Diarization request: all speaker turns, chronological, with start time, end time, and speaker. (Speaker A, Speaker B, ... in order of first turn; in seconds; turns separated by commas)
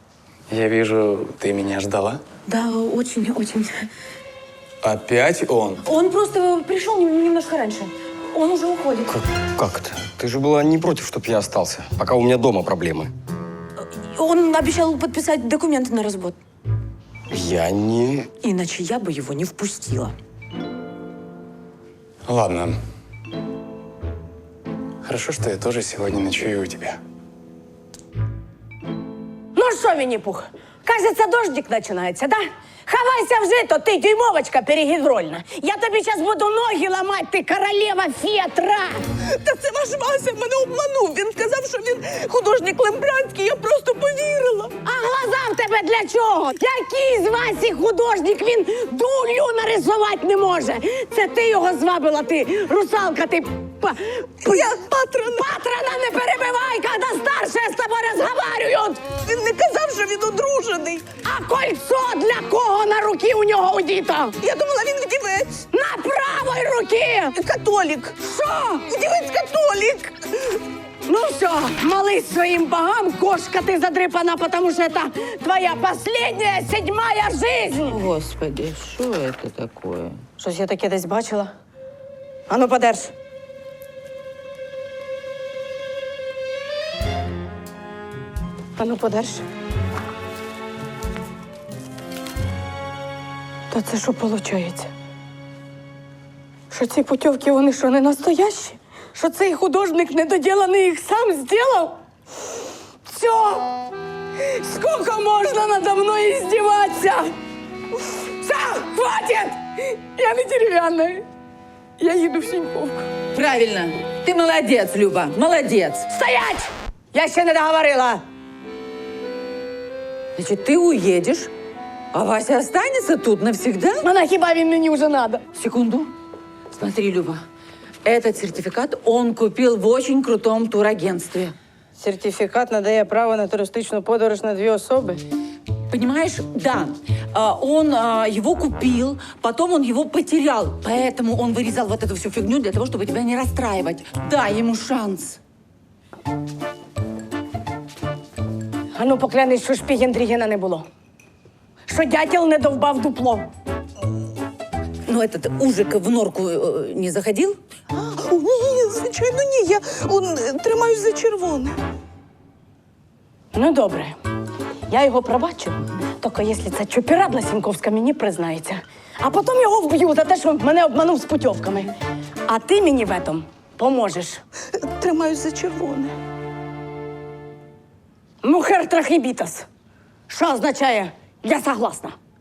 Speaker A: 0.5-2.2, Speaker B: 2.5-3.7, Speaker A: 4.8-5.8, Speaker B: 5.8-9.1, Speaker C: 9.1-13.1, Speaker B: 13.9-16.4, Speaker C: 17.3-18.3, Speaker B: 18.4-20.1, Speaker A: 22.3-22.8, Speaker A: 25.0-27.0, Speaker D: 29.6-39.0, Speaker E: 39.3-44.8, Speaker D: 44.8-54.6, Speaker E: 54.4-55.5, Speaker D: 55.4-59.1, Speaker E: 59.1-61.1, Speaker D: 61.2-64.4, Speaker E: 64.4-65.7, Speaker D: 65.7-67.4, Speaker E: 67.3-70.2, Speaker D: 68.4-68.7, Speaker D: 71.1-78.1, Speaker F: 77.9-80.3, Speaker D: 80.4-81.5, Speaker D: 82.5-83.1, Speaker D: 88.8-89.5, Speaker D: 93.7-94.9, Speaker D: 96.7-102.0, Speaker D: 103.1-103.7, Speaker D: 104.6-107.3, Speaker D: 108.4-111.2, Speaker D: 112.0-113.1, Speaker F: 113.3-116.1, Speaker D: 116.1-118.2, Speaker F: 120.4-121.5, Speaker F: 122.1-124.1, Speaker D: 124.0-125.4, Speaker F: 125.5-126.1, Speaker F: 126.7-127.4, Speaker F: 128.1-131.5, Speaker D: 132.0-135.2, Speaker F: 135.9-145.4, Speaker D: 148.9-150.9, Speaker D: 151.9-153.5, Speaker F: 155.1-157.6, Speaker E: 157.9-161.8, Speaker D: 163.5-164.2, Speaker D: 164.9-171.9, Speaker D: 172.5-174.4, Speaker E: 174.8-176.2, Speaker D: 178.4-179.7, Speaker D: 180.3-182.2